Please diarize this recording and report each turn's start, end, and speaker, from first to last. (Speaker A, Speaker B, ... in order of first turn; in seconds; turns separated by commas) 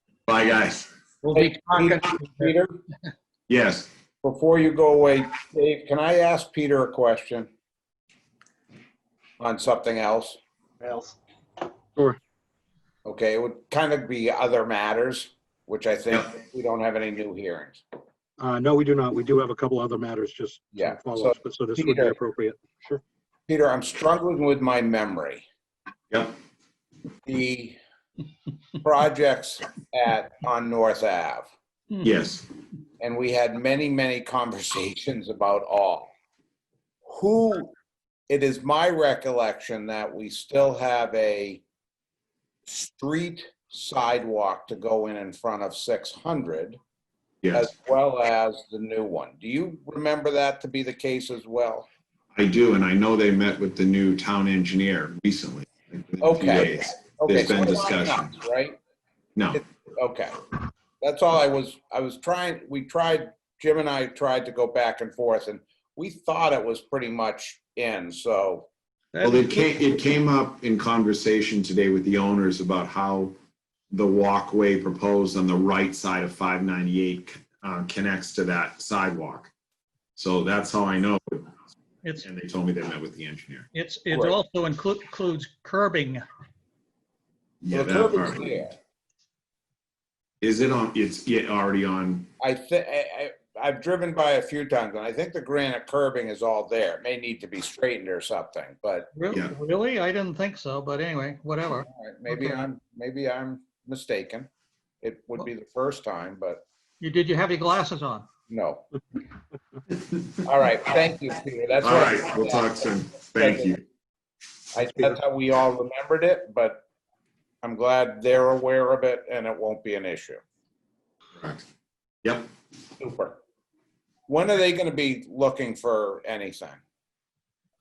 Speaker A: 0.3-0.9, Speaker B: 1.2-2.8, Speaker C: 1.3-2.5, Speaker A: 3.5-3.9, Speaker B: 4.2-7.5, Speaker B: 9.4-10.4, Speaker D: 10.8-11.1, Speaker B: 13.0-17.8, Speaker D: 18.4-23.0, Speaker B: 20.7-22.1, Speaker B: 23.5-25.4, Speaker A: 26.1-26.4, Speaker B: 27.2-27.8, Speaker B: 28.8-31.5, Speaker A: 32.0-32.5, Speaker B: 33.0-36.1, Speaker B: 37.1-37.7, Speaker B: 38.3-41.6, Speaker B: 42.7-46.8, Speaker A: 47.4-47.7, Speaker B: 47.5-51.9, Speaker A: 52.3-58.3, Speaker B: 56.2-58.8, Speaker B: 59.5-60.3, Speaker B: 61.0-68.7, Speaker C: 69.1-69.8, Speaker A: 69.2-73.3, Speaker A: 73.9-79.5, Speaker A: 80.2-81.5, Speaker A: 82.2-83.7, Speaker C: 83.7-86.2, Speaker B: 84.1-84.4, Speaker A: 87.6-88.6, Speaker B: 87.7-88.7, Speaker A: 90.4-92.3, Speaker B: 92.4-99.1, Speaker C: 99.1-102.6, Speaker B: 101.8-104.5, Speaker B: 105.0-106.6, Speaker C: 107.0-108.3, Speaker B: 108.5-108.9, Speaker B: 110.4-113.8, Speaker A: 111.8-113.8, Speaker B: 114.7-116.8, Speaker B: 117.6-120.4, Speaker A: 122.2-122.5, Speaker B: 123.0-123.4, Speaker B: 124.3-126.8